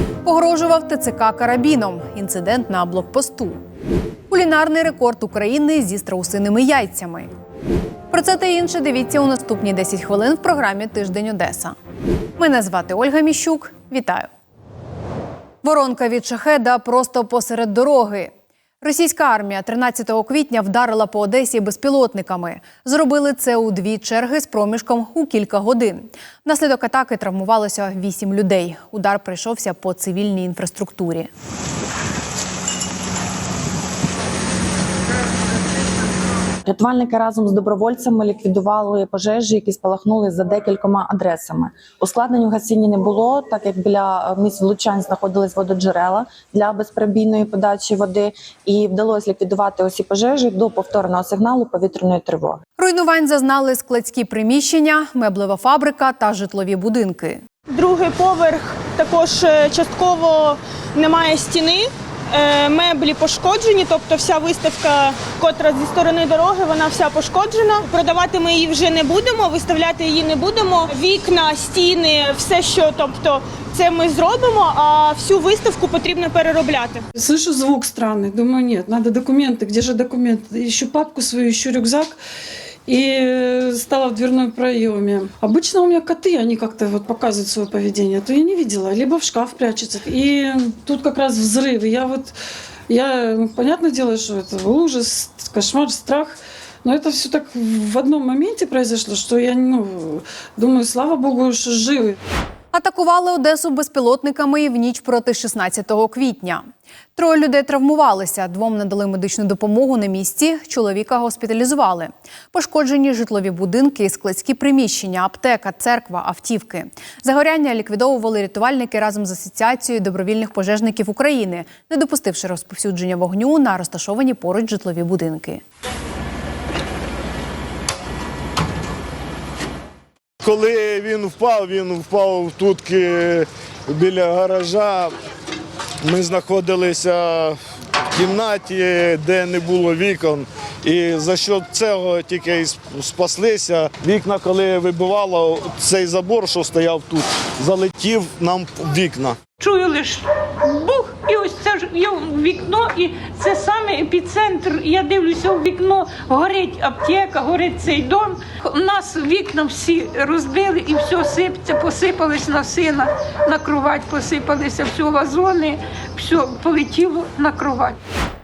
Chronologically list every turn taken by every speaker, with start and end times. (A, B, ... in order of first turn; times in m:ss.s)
0:00.2-0:03.6 A
0:04.3-0:07.3 A
0:08.1-0:11.7 A
0:12.4-0:14.3 A
0:15.6-0:18.3 A
0:18.8-0:31.3 A
0:36.7-0:52.6 B
0:52.8-0:57.4 A
0:57.7-1:17.0 C
1:17.1-1:22.2 D
1:22.8-1:32.4 D
1:32.9-1:42.2 D
1:42.7-1:46.6 A
1:47.2-2:05.6 A
2:10.4-2:15.1 E
2:16.0-2:17.6 E
2:18.1-2:29.4 E
2:29.6-2:48.0 F